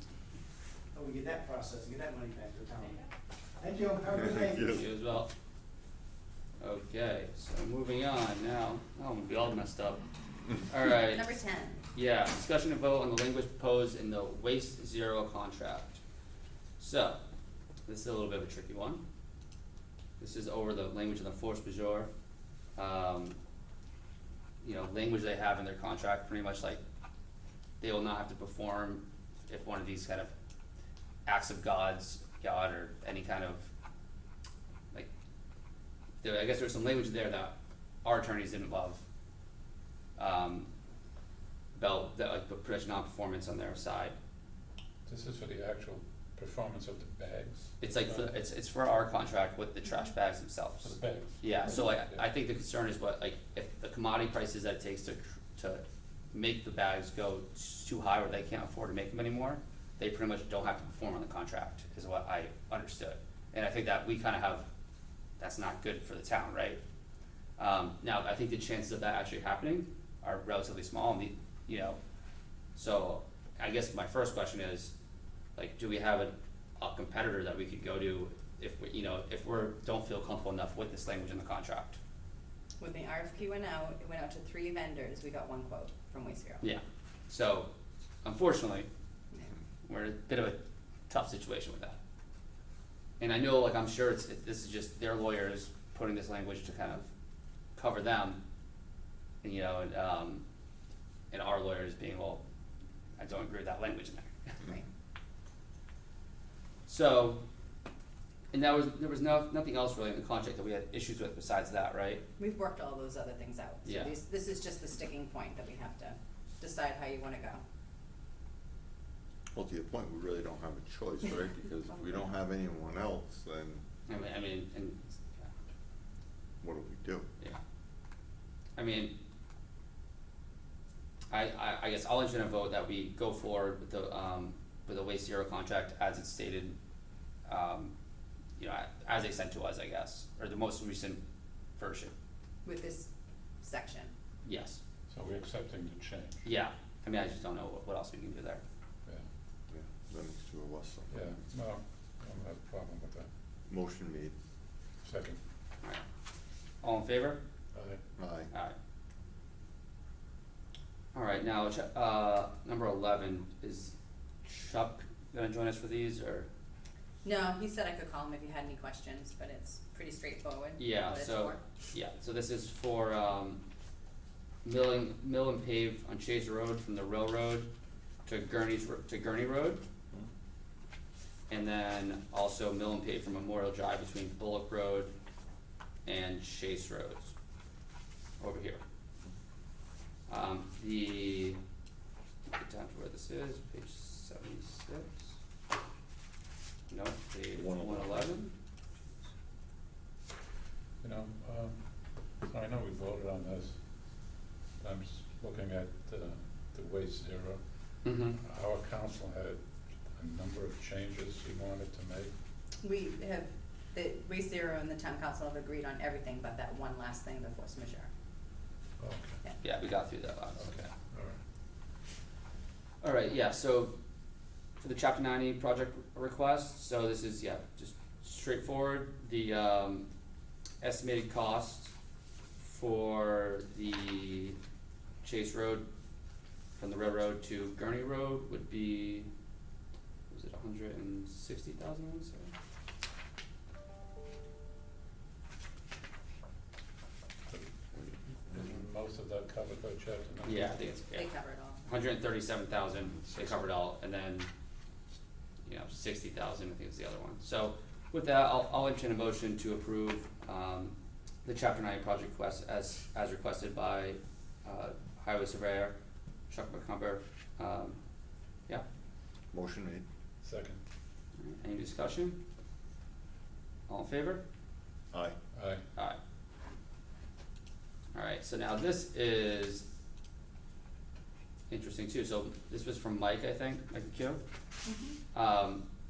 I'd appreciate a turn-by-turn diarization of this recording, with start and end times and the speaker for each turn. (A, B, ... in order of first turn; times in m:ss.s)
0:00.9-0:03.0 A
0:03.6-0:04.7 A
0:04.3-0:04.8 B
0:04.6-0:05.3 C
0:06.6-0:10.0 C
0:10.7-0:11.4 C
0:11.0-0:11.8 D
0:11.9-0:16.0 C
0:16.8-0:17.2 C
0:17.9-0:19.0 C
0:20.2-0:22.1 C
0:22.8-0:23.4 C
0:24.6-0:26.8 C
0:27.8-0:30.3 C
0:31.3-0:33.7 C
0:36.2-0:39.0 C
0:40.2-0:40.7 C
0:41.8-0:44.2 C
0:45.1-0:48.3 E
0:47.8-1:04.7 C
0:50.8-0:52.2 E
1:05.4-1:06.8 C
1:07.6-1:12.0 C
1:12.8-1:14.9 C
1:15.6-1:22.0 C
1:22.8-1:26.6 D
1:26.6-1:27.7 C
1:28.2-1:28.9 C
1:29.8-1:32.0 C
1:33.2-1:37.1 C
1:37.8-1:38.4 C
1:39.4-1:40.4 C
1:41.3-1:42.4 C
1:43.2-1:44.6 C
1:46.9-1:47.4 C
1:48.5-1:52.2 C
1:52.4-1:57.6 D
1:53.8-1:54.1 C
1:59.6-2:03.8 B
2:04.1-2:05.5 C
2:06.6-2:07.3 B
2:08.8-2:09.2 C
2:11.3-2:16.8 C
2:17.5-2:17.9 C
2:18.6-2:21.2 C
2:21.8-2:22.1 C
2:22.6-2:23.1 D
2:23.6-2:24.1 D
2:24.4-2:24.8 C
2:25.1-2:26.4 E
2:26.4-2:28.6 C
2:29.7-2:31.1 B
2:31.1-2:33.3 E
2:33.7-2:34.3 B
2:35.0-2:35.4 E
2:36.8-2:37.4 C
2:37.7-2:38.0 E
2:38.2-2:38.5 B
2:41.1-2:46.5 C
2:47.2-2:51.6 D
2:50.8-2:53.6 C
2:54.6-2:57.7 C
2:58.3-2:59.8 C
3:01.5-3:05.1 C
3:06.1-3:07.3 C
3:08.4-3:08.8 C
3:10.3-3:11.6 C
3:12.5-3:15.4 C
3:16.9-3:18.5 C
3:17.5-3:18.4 B
3:21.0-3:21.8 E
3:22.4-3:23.8 E
3:24.8-3:27.6 E
3:28.0-3:28.4 C
3:28.1-3:29.6 E
3:30.2-3:32.3 E
3:32.8-3:38.1 D
3:39.0-3:39.4 E
3:39.6-3:40.8 C
3:40.6-3:41.4 E
3:43.0-3:44.0 C
3:44.8-3:50.1 C
3:50.8-3:51.9 C
3:52.6-3:54.6 C
3:55.2-3:55.9 C
3:56.8-3:59.3 C
4:00.3-4:02.5 C
4:07.5-4:10.8 E
4:10.4-4:11.3 C
4:11.1-4:11.8 D
4:11.8-4:14.5 C
4:15.6-4:26.0 C
4:26.5-4:28.0 C
4:29.5-4:30.0 B
4:30.4-4:30.8 E
4:31.4-4:32.4 C
4:33.9-4:34.4 C
4:35.5-4:35.8 E
4:38.1-4:39.9 C
4:41.7-4:44.4 C
4:44.8-4:45.2 D
4:45.3-4:45.9 C